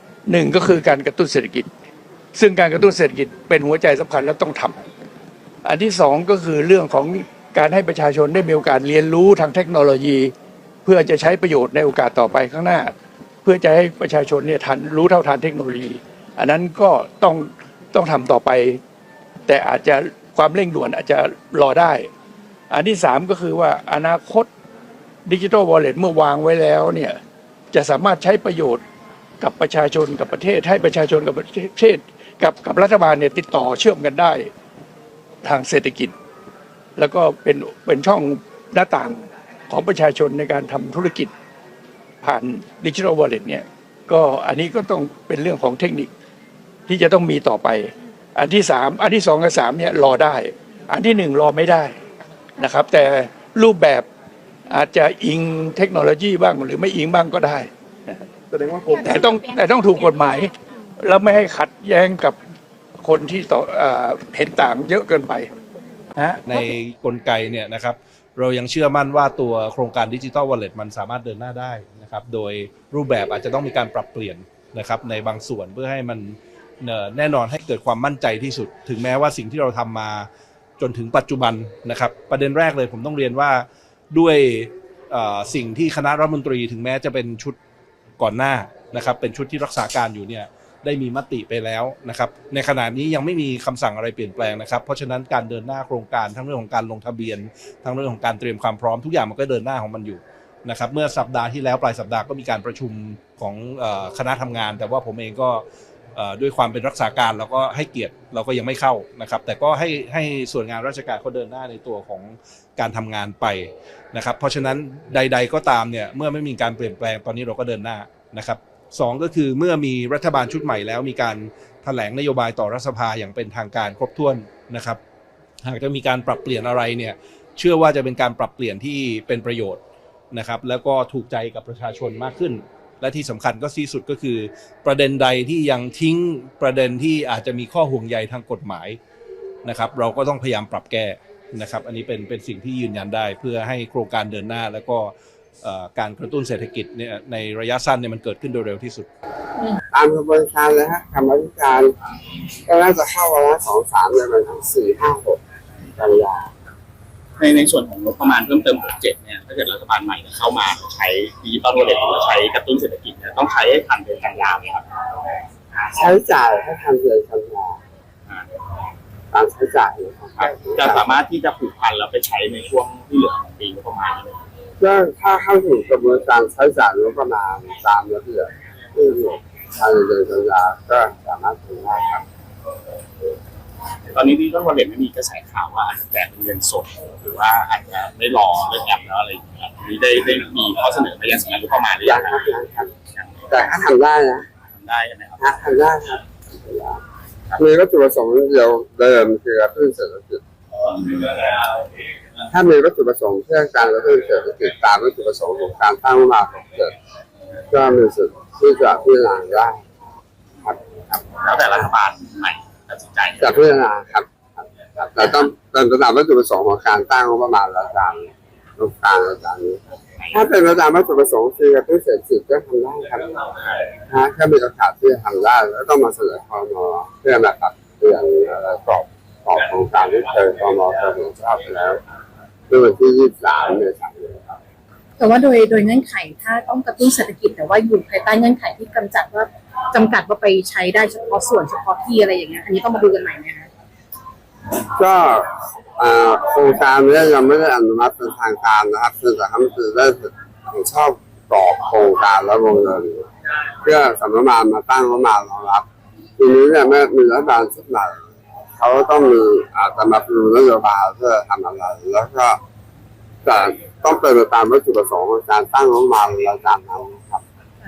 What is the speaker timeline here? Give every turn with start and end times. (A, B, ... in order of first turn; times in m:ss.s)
0:00.3-0:01.7 A
0:02.3-0:04.8 A
0:05.6-0:10.3 A
0:10.8-0:12.9 A
0:13.4-0:18.8 A
0:19.5-0:22.1 A
0:22.7-0:24.5 A
0:25.3-0:27.2 A
0:27.7-0:28.8 A
0:29.4-0:34.5 A
0:35.4-0:36.1 A
0:37.0-0:41.3 A
0:42.2-0:46.1 A
0:46.9-0:51.9 A
0:52.6-0:54.1 A
0:54.7-0:58.2 A
0:58.9-1:02.4 A
1:03.0-1:05.5 A
1:06.2-1:06.7 A
1:06.5-1:20.3 B
1:20.8-1:27.6 B
1:28.2-1:45.6 B
1:46.2-2:05.0 B
2:05.6-2:09.8 B
2:10.3-2:19.0 B
2:19.7-2:29.1 B
2:29.9-2:31.9 C
2:32.7-2:35.4 C
2:36.0-2:36.5 C
2:37.4-2:44.8 D
2:46.0-2:47.8 C
2:49.3-2:51.2 C
2:50.4-2:54.4 D
2:54.8-3:02.2 C
3:04.1-3:12.3 D
3:12.0-3:12.9 C
3:13.5-3:14.4 C
3:14.8-3:15.4 D
3:15.4-3:17.0 C
3:17.6-3:20.4 C
3:21.1-3:21.4 C
3:22.5-3:26.9 C
3:27.7-3:29.8 C
3:30.6-3:31.2 C
3:31.5-3:33.4 D
3:33.4-3:43.4 C
3:44.1-3:52.0 C
3:52.7-3:54.6 C
3:55.2-4:03.7 E
4:05.0-4:13.3 C
4:13.8-4:15.8 C
4:16.4-4:18.2 C
4:18.8-4:22.6 C
4:23.4-4:27.4 C